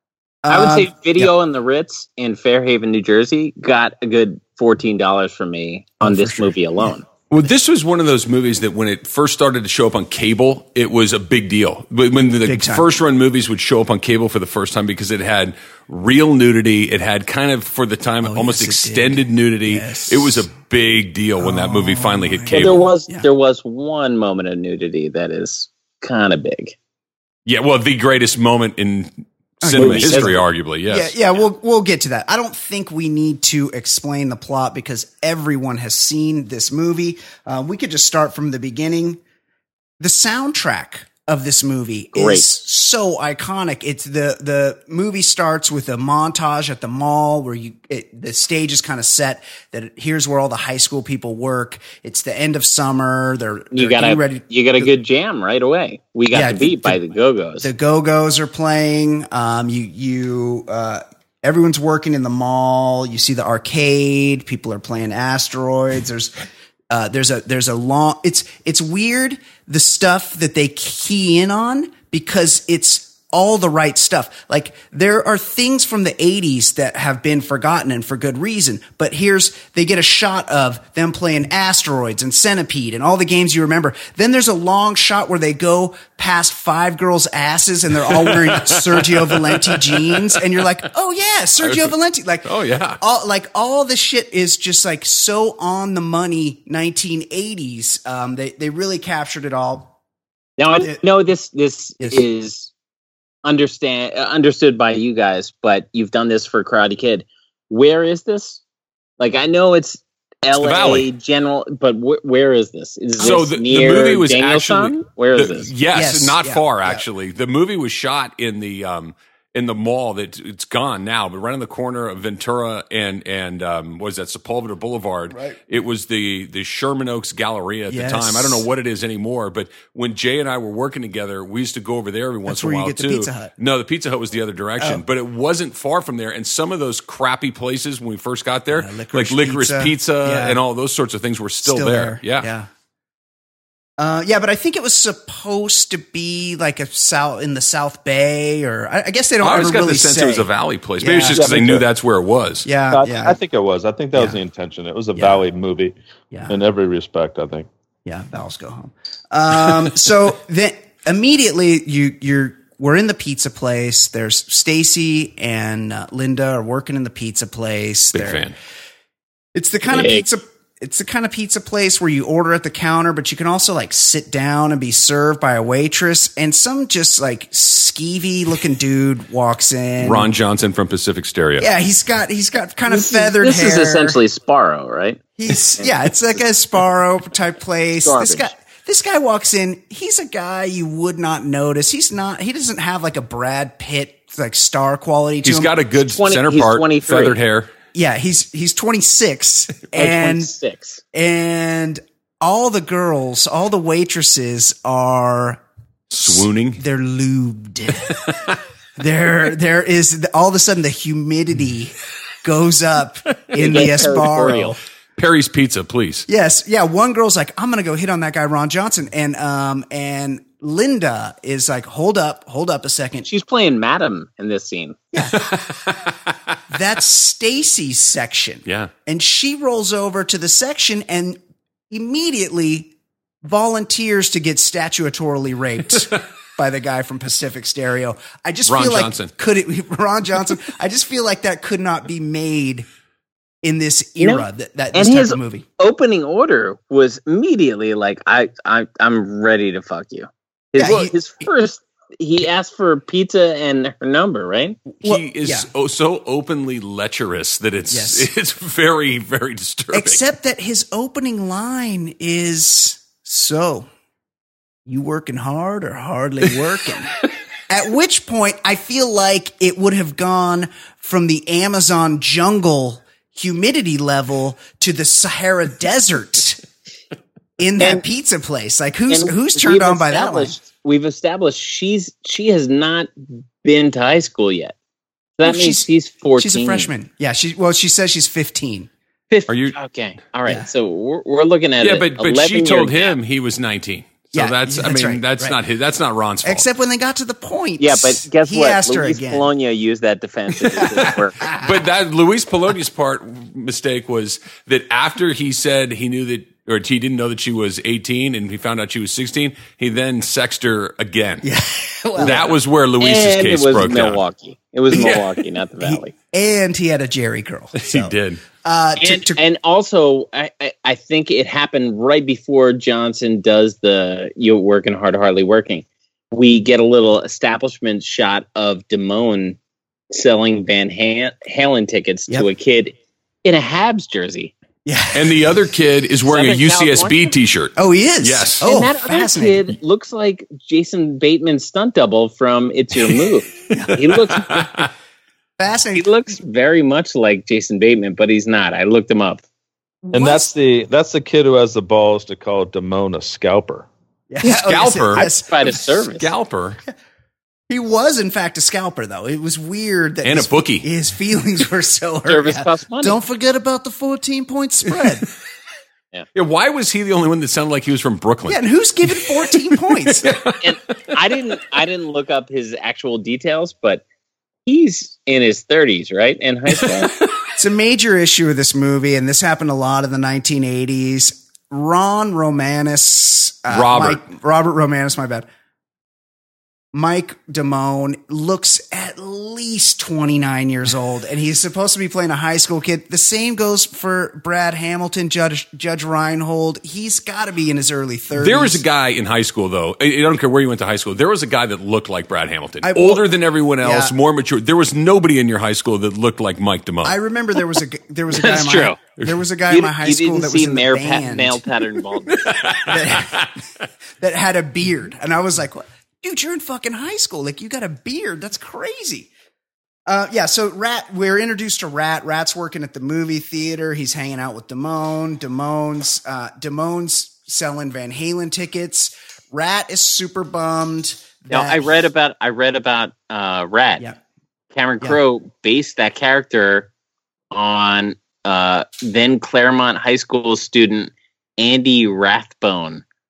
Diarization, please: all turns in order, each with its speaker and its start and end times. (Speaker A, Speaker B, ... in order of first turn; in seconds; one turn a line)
Speaker A: 0.4-1.3
Speaker B: 0.5-7.1
Speaker A: 6.0-6.9
Speaker C: 7.3-22.9
Speaker A: 12.4-12.9
Speaker A: 18.2-20.5
Speaker A: 21.4-23.3
Speaker B: 22.5-26.8
Speaker C: 27.5-31.2
Speaker A: 29.6-39.2
Speaker B: 29.8-30.4
Speaker A: 40.0-54.9
Speaker B: 42.1-42.5
Speaker B: 53.7-57.7
Speaker A: 56.3-57.0
Speaker A: 57.6-66.3
Speaker A: 66.9-99.9
Speaker C: 88.1-90.4
Speaker C: 91.6-93.0
Speaker B: 100.6-102.7
Speaker A: 100.7-101.0
Speaker A: 102.0-102.2
Speaker B: 103.4-108.6
Speaker B: 109.2-115.7
Speaker C: 110.5-111.1
Speaker C: 113.2-142.5
Speaker A: 115.9-117.1
Speaker A: 125.3-125.6
Speaker A: 127.9-128.7
Speaker A: 132.5-133.5
Speaker A: 138.7-140.6
Speaker A: 141.6-142.7
Speaker A: 144.0-151.6
Speaker C: 149.4-152.7
Speaker D: 151.4-151.8
Speaker A: 152.7-153.4
Speaker D: 152.9-155.9
Speaker A: 155.2-155.5
Speaker A: 156.3-156.6
Speaker D: 156.5-157.7
Speaker A: 158.1-168.5
Speaker C: 168.1-168.6
Speaker A: 169.6-180.3
Speaker B: 169.9-170.2
Speaker C: 180.0-181.7
Speaker A: 181.6-184.2
Speaker B: 182.9-185.2
Speaker A: 185.4-195.7
Speaker B: 188.0-188.5
Speaker C: 195.4-197.7
Speaker B: 196.0-197.4
Speaker A: 197.9-200.5
Speaker B: 199.9-201.0
Speaker A: 201.1-205.6
Speaker C: 206.1-206.8
Speaker A: 206.2-208.3
Speaker A: 209.0-214.8
Speaker B: 213.6-214.8
Speaker C: 215.2-216.3
Speaker A: 216.3-223.3
Speaker B: 223.3-225.0
Speaker A: 225.1-225.4
Speaker C: 225.3-226.1
Speaker A: 226.7-231.4
Speaker C: 228.7-228.9
Speaker A: 231.9-232.9
Speaker A: 233.4-242.9
Speaker C: 238.7-239.3
Speaker A: 243.6-245.7
Speaker B: 244.2-254.9
Speaker A: 250.8-251.1
Speaker A: 254.9-255.7
Speaker C: 255.0-260.2
Speaker A: 257.9-258.3
Speaker A: 259.9-263.9
Speaker A: 264.9-267.2
Speaker A: 267.7-276.6
Speaker A: 277.6-280.6
Speaker B: 277.8-278.0
Speaker B: 279.1-283.1
Speaker B: 283.6-284.7
Speaker B: 285.4-286.9
Speaker A: 285.4-288.9
Speaker B: 289.3-293.2
Speaker C: 289.5-289.8
Speaker C: 291.8-296.7
Speaker A: 294.3-295.6
Speaker A: 296.4-299.5
Speaker B: 297.8-301.4
Speaker A: 301.4-301.7
Speaker C: 301.6-311.5
Speaker A: 311.4-312.4
Speaker C: 312.2-314.2
Speaker B: 312.2-312.4
Speaker B: 313.0-316.1
Speaker A: 314.9-315.2
Speaker C: 314.9-315.3
Speaker A: 315.8-319.4
Speaker C: 317.8-318.4
Speaker B: 319.0-329.6
Speaker B: 330.1-334.5
Speaker A: 334.9-335.6
Speaker C: 335.1-338.6
Speaker B: 336.3-337.3
Speaker A: 337.8-339.7
Speaker B: 338.6-344.5
Speaker A: 343.7-344.0
Speaker C: 344.3-344.9
Speaker A: 345.6-346.1
Speaker B: 345.9-349.4
Speaker A: 350.1-350.5
Speaker D: 350.1-353.9
Speaker A: 354.3-355.8
Speaker C: 354.4-355.3
Speaker B: 355.1-356.3
Speaker C: 356.2-356.8
Speaker A: 357.7-365.3
Speaker C: 360.2-360.9
Speaker B: 362.3-363.2
Speaker C: 366.4-368.6
Speaker A: 368.5-370.4
Speaker C: 370.1-370.6
Speaker B: 370.6-374.0
Speaker B: 374.7-377.1
Speaker C: 376.8-377.3
Speaker A: 377.6-385.5
Speaker C: 383.7-384.2
Speaker A: 386.9-398.8
Speaker C: 398.4-407.2
Speaker A: 402.8-403.3
Speaker A: 403.8-404.1
Speaker A: 407.0-411.7
Speaker B: 408.3-409.0
Speaker B: 409.7-412.4
Speaker C: 412.4-413.5
Speaker A: 412.9-413.5
Speaker A: 414.2-419.3
Speaker A: 420.1-431.9
Speaker B: 431.5-434.0
Speaker B: 434.7-436.9
Speaker B: 437.5-443.0